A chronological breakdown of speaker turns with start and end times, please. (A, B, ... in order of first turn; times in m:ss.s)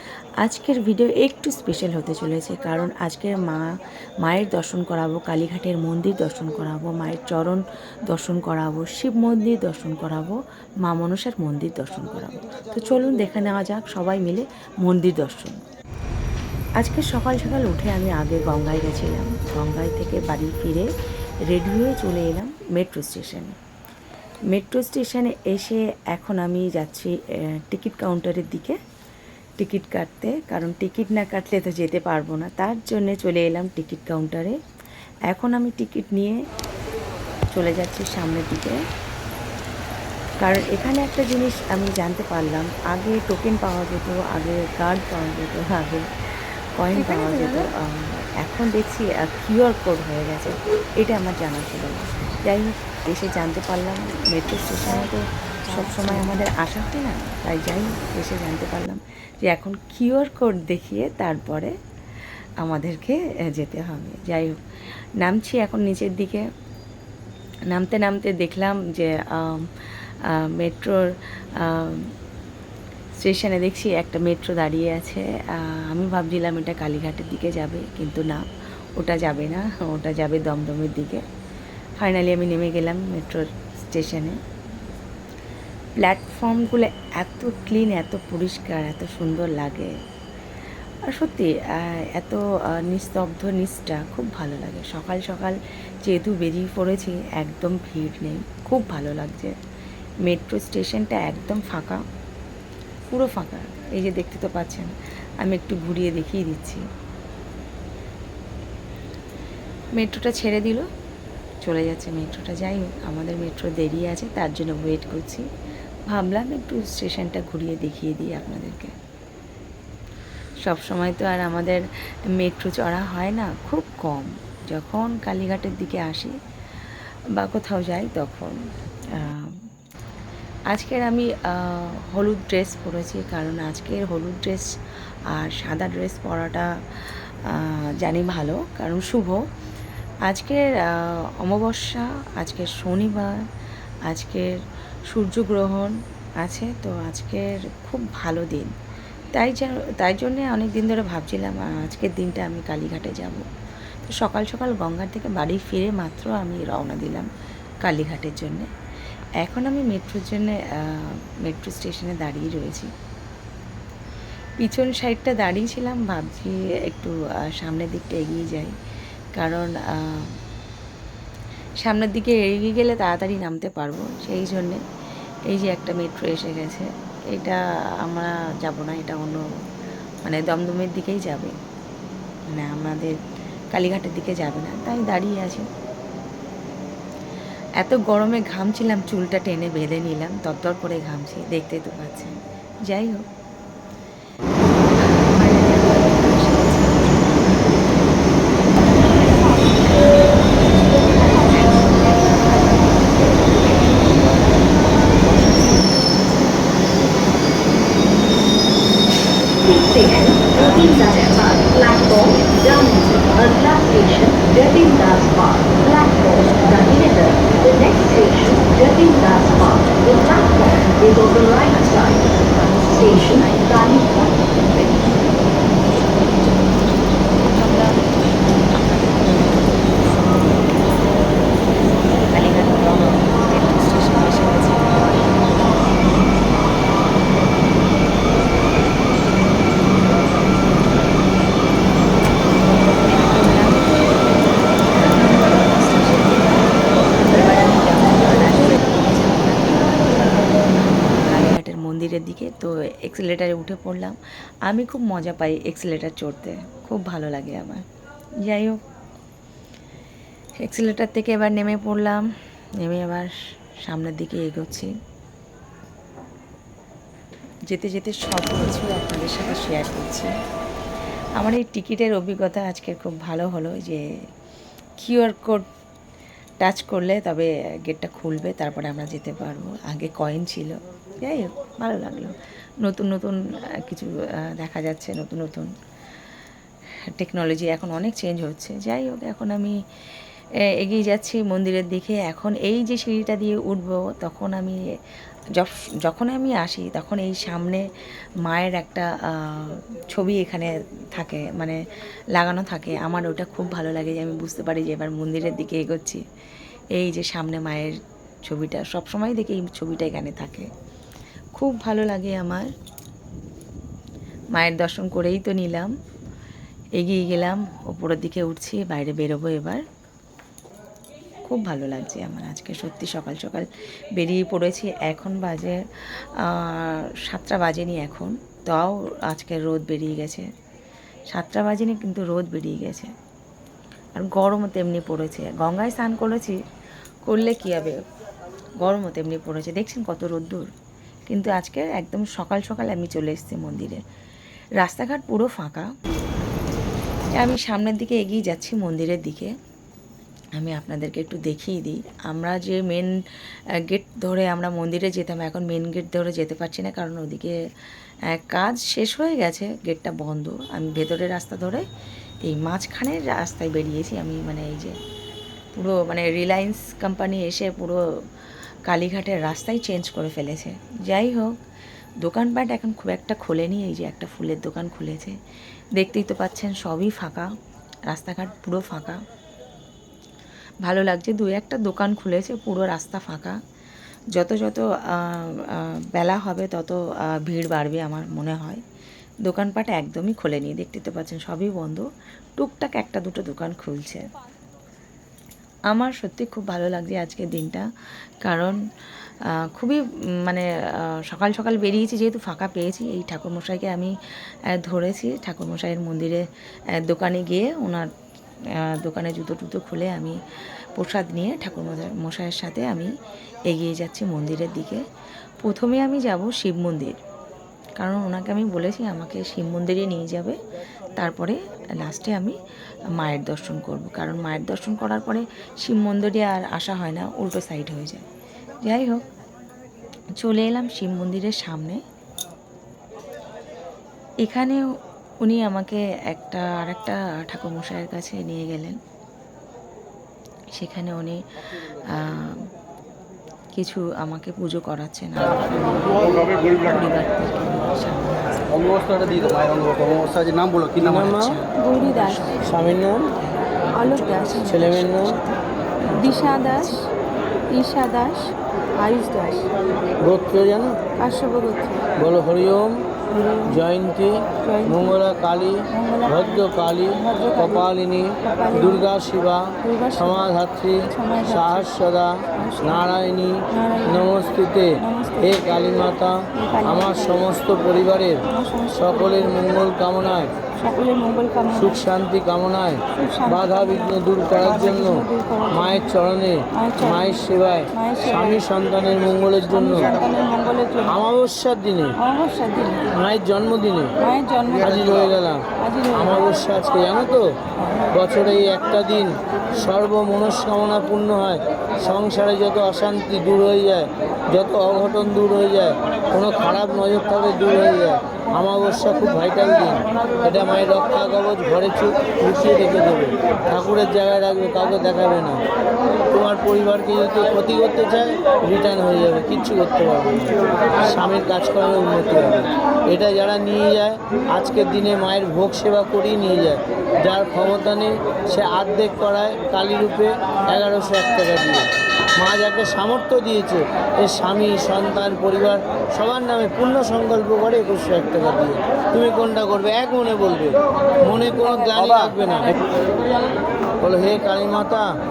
0:00.4-0:03.7 A
0:04.2-0:15.6 A
0:16.8-0:20.9 A
0:21.5-0:23.6 A
0:24.5-0:28.8 A
0:29.6-0:34.6 A
0:35.3-0:36.4 A
0:37.5-0:38.8 A
0:40.4-0:46.0 A
0:46.8-1:01.7 A
0:46.9-0:47.7 B
0:54.8-0:56.5 B
1:02.6-1:04.6 A
1:05.2-1:06.5 A
1:07.7-1:09.7 A
1:10.3-1:12.1 A
1:13.2-1:18.4 A
1:19.0-1:21.2 A
1:22.0-1:24.4 A
1:26.0-1:30.0 A
1:31.1-1:39.6 A
1:40.2-1:42.0 A
1:43.1-1:46.8 A
1:50.0-1:50.9 A
1:51.6-1:55.4 A
1:56.1-1:58.9 A
2:00.6-2:06.4 A
2:07.3-2:09.5 A
2:10.7-2:14.7 A
2:15.3-2:19.4 A
2:20.2-2:23.4 A
2:24.0-2:28.7 A
2:29.3-2:33.4 A
2:34.0-2:37.3 A
2:37.8-2:38.7 A
2:39.4-2:42.9 A
2:44.6-2:48.7 A
2:49.3-2:50.4 A
2:51.8-2:54.8 A
2:55.5-2:59.5 A
3:00.2-3:01.6 A
3:02.5-3:03.2 A
3:03.7-3:05.7 A
3:07.8-3:13.3 A
3:14.6-3:18.0 A
3:19.1-3:19.8 A
3:19.3-3:19.8 B
3:21.1-3:21.9 B
3:21.3-3:26.8 A
3:29.6-3:42.3 C
3:42.9-3:44.6 C
3:47.4-3:51.0 A
3:52.2-3:56.2 A
4:00.7-4:01.1 A
4:03.0-4:17.8 A
4:18.4-4:18.8 A
4:20.6-4:22.3 A
4:22.8-4:24.9 A
4:27.7-4:30.3 A
4:31.4-4:34.0 A
4:35.0-4:35.7 A
4:36.6-4:45.7 A
4:47.1-4:49.8 A
4:50.7-4:54.8 A
4:55.6-4:57.8 A
4:58.4-5:06.2 A
5:06.9-5:10.7 A
5:11.5-5:12.7 A
5:14.5-5:15.9 A
5:17.0-5:19.8 A
5:21.4-5:25.8 A
5:26.4-5:30.5 A
5:31.3-5:33.1 A
5:34.1-5:36.6 A
5:37.2-5:38.0 A
5:38.8-5:40.7 A
5:41.3-5:44.0 A
5:44.8-5:45.9 A
5:47.3-5:49.5 A
5:50.6-5:53.2 A
5:53.8-5:57.6 A
5:58.3-6:01.8 A
6:02.4-6:05.0 A
6:05.7-6:08.0 A
6:08.9-6:11.6 A
6:12.2-6:15.4 A
6:15.9-6:17.5 A
6:18.1-6:19.2 A
6:20.8-6:23.6 A
6:24.3-6:28.8 A
6:29.4-6:32.0 A
6:32.6-6:34.2 A
6:35.9-6:37.8 A
6:38.4-6:38.8 A
6:39.6-6:44.1 A
6:44.7-6:46.4 A
6:47.0-6:48.1 A
6:48.8-6:50.4 A
6:50.9-6:53.1 A
6:53.7-6:55.0 A
6:55.6-6:57.2 A
6:58.0-7:00.6 A
7:01.2-7:02.6 A
7:03.2-7:08.3 A
7:08.8-7:09.2 A
7:10.4-7:12.0 A
7:14.4-7:14.8 A
7:15.4-7:19.0 A
7:20.7-7:21.4 A
7:22.1-7:22.6 A
7:23.8-7:28.8 A
7:28.8-7:31.4 D
7:31.0-7:31.6 E
7:31.2-7:37.0 A
7:31.8-7:32.5 B
7:32.6-7:33.3 E
7:34.0-7:34.9 B
7:34.6-7:35.3 E
7:36.1-7:37.0 B
7:37.7-7:39.7 B
7:40.2-7:41.0 E
7:41.2-7:42.1 B
7:42.2-7:43.0 E
7:43.3-7:43.8 B
7:43.6-8:00.5 E
7:44.6-7:45.2 B
7:45.9-7:47.9 B
7:48.4-7:49.0 B
7:49.8-7:50.5 B
7:51.1-7:51.9 B
7:52.5-7:53.2 B
7:53.7-7:54.4 B
7:55.0-7:55.8 B
7:56.5-7:57.5 B
7:58.5-7:59.8 B
8:00.8-8:02.0 B
8:01.7-8:10.1 E
8:03.1-8:06.1 B
8:06.7-8:08.7 B
8:09.7-8:11.2 B
8:11.0-8:12.2 E
8:12.2-8:13.1 B
8:13.1-8:14.2 E
8:14.2-8:15.0 B
8:14.8-8:17.5 E
8:15.8-8:16.5 B
8:18.1-8:35.6 E
8:36.3-8:51.8 E
8:52.4-9:02.8 E
9:04.0-9:05.1 E